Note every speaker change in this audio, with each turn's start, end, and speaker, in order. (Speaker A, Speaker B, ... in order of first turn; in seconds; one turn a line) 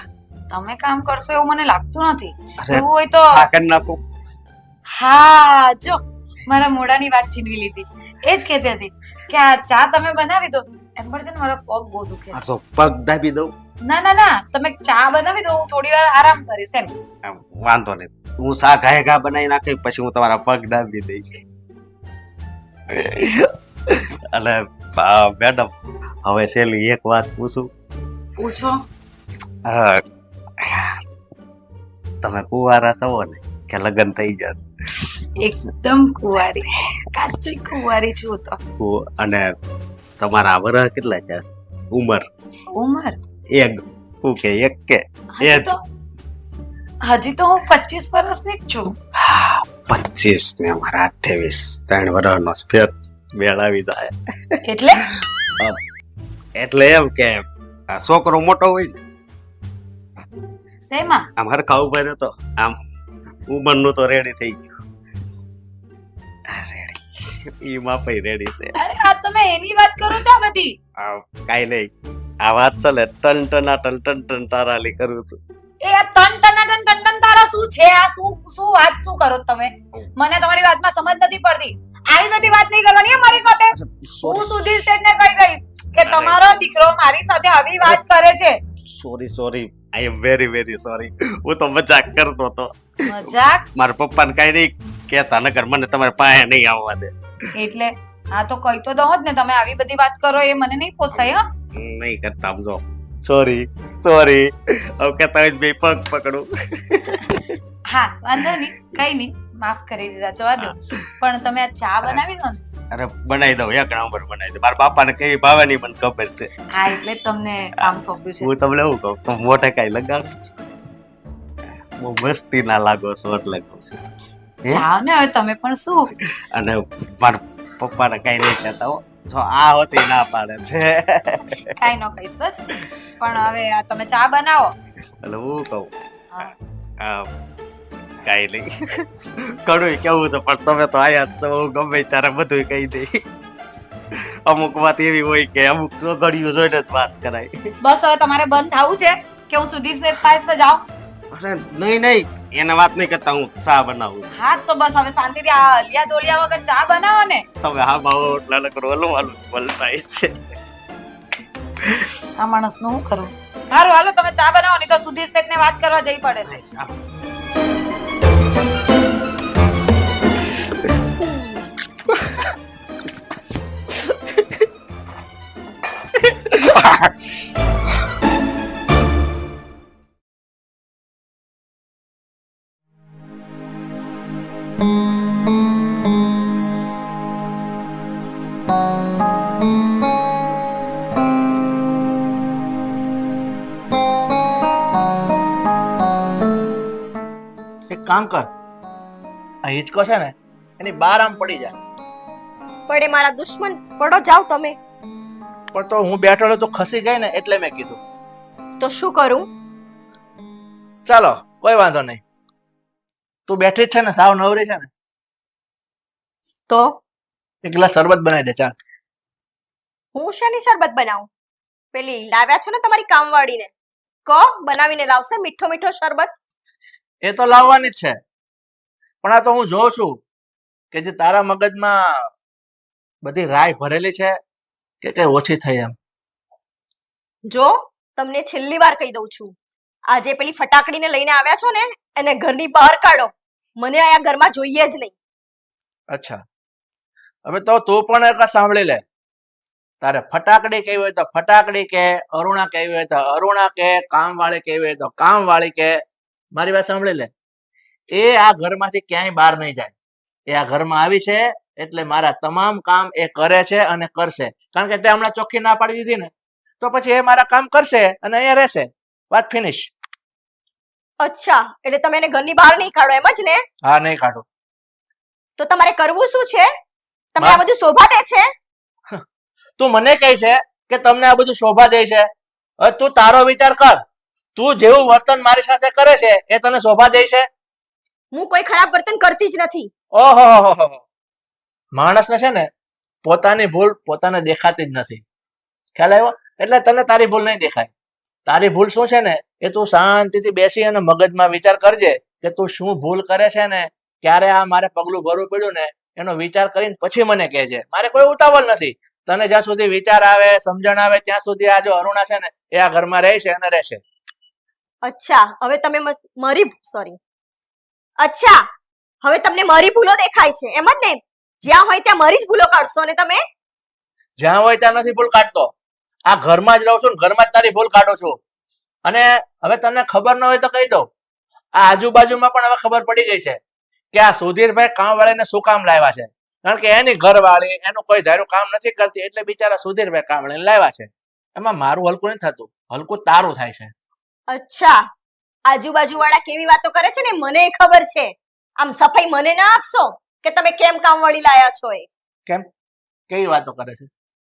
Speaker A: 0.5-3.5
Speaker B: 2.6-4.0
Speaker A: 4.9-12.4
Speaker B: 12.3-13.5
Speaker A: 13.9-16.9
Speaker B: 17.2-21.4
Speaker B: 22.9-25.7
Speaker B: 26.2-27.7
Speaker A: 28.4-28.8
Speaker B: 29.7-30.0
Speaker B: 30.6-31.0
Speaker B: 32.2-34.7
Speaker A: 35.4-38.6
Speaker B: 38.8-39.5
Speaker B: 40.2-42.3
Speaker A: 42.8-43.2
Speaker B: 43.5-45.8
Speaker A: 45.3-45.8
Speaker A: 47.1-48.9
Speaker B: 49.2-54.6
Speaker A: 54.7-55.0
Speaker B: 55.1-55.8
Speaker B: 56.6-59.0
Speaker A: 60.8-61.2
Speaker B: 61.4-62.8
Speaker B: 63.5-64.8
Speaker B: 66.5-68.8
Speaker A: 68.8-70.7
Speaker B: 71.0-71.9
Speaker B: 72.4-75.4
Speaker A: 75.8-88.6
Speaker B: 83.8-84.5
Speaker B: 86.0-86.4
Speaker B: 88.9-97.1
Speaker A: 93.1-93.6
Speaker A: 97.5-101.4
Speaker B: 101.7-107.4
Speaker A: 107.9-112.6
Speaker B: 110.6-111.0
Speaker B: 112.9-116.5
Speaker A: 116.7-118.5
Speaker B: 117.8-120.5
Speaker B: 122.0-124.0
Speaker A: 124.7-126.1
Speaker B: 126.3-131.7
Speaker A: 131.7-132.7
Speaker A: 133.2-134.7
Speaker B: 135.2-135.9
Speaker B: 137.0-137.3
Speaker B: 138.2-143.2
Speaker B: 144.1-147.7
Speaker A: 147.8-150.8
Speaker B: 151.3-154.3
Speaker A: 154.3-157.4
Speaker B: 157.6-160.6
Speaker B: 161.8-162.1
Speaker A: 162.4-166.5
Speaker B: 166.4-166.9
Speaker B: 176.5-177.1
Speaker C: 197.9-198.5
Speaker C: 199.6-201.8
Speaker D: 202.9-204.8
Speaker C: 205.7-208.0
Speaker D: 208.8-209.5
Speaker C: 211.1-212.2
Speaker C: 213.5-214.9
Speaker C: 217.6-218.7
Speaker D: 220.1-221.3
Speaker D: 221.9-223.7
Speaker D: 224.3-226.3
Speaker C: 227.2-228.2
Speaker C: 229.2-230.2
Speaker C: 230.9-232.3
Speaker C: 233.2-234.4
Speaker C: 235.0-235.9
Speaker D: 237.5-239.6
Speaker D: 240.1-245.1
Speaker C: 246.1-246.4
Speaker C: 247.4-249.0
Speaker C: 250.0-256.0
Speaker C: 256.5-257.3
Speaker C: 258.1-259.9
Speaker C: 260.5-269.9
Speaker D: 271.2-273.6
Speaker C: 273.8-274.4
Speaker D: 275.6-276.7
Speaker D: 277.3-278.4
Speaker C: 279.8-284.0
Speaker C: 284.6-287.5
Speaker D: 288.3-289.9
Speaker C: 290.1-291.0
Speaker C: 291.9-292.7
Speaker C: 293.2-295.2
Speaker C: 295.9-297.9
Speaker C: 298.4-314.0
Speaker D: 315.1-317.2
Speaker D: 318.2-318.6
Speaker D: 319.2-323.4
Speaker C: 324.4-325.7
Speaker C: 326.3-328.4
Speaker C: 329.1-331.1
Speaker C: 331.8-333.6
Speaker C: 334.1-343.9
Speaker D: 344.5-345.0
Speaker D: 345.7-352.1
Speaker C: 353.3-354.1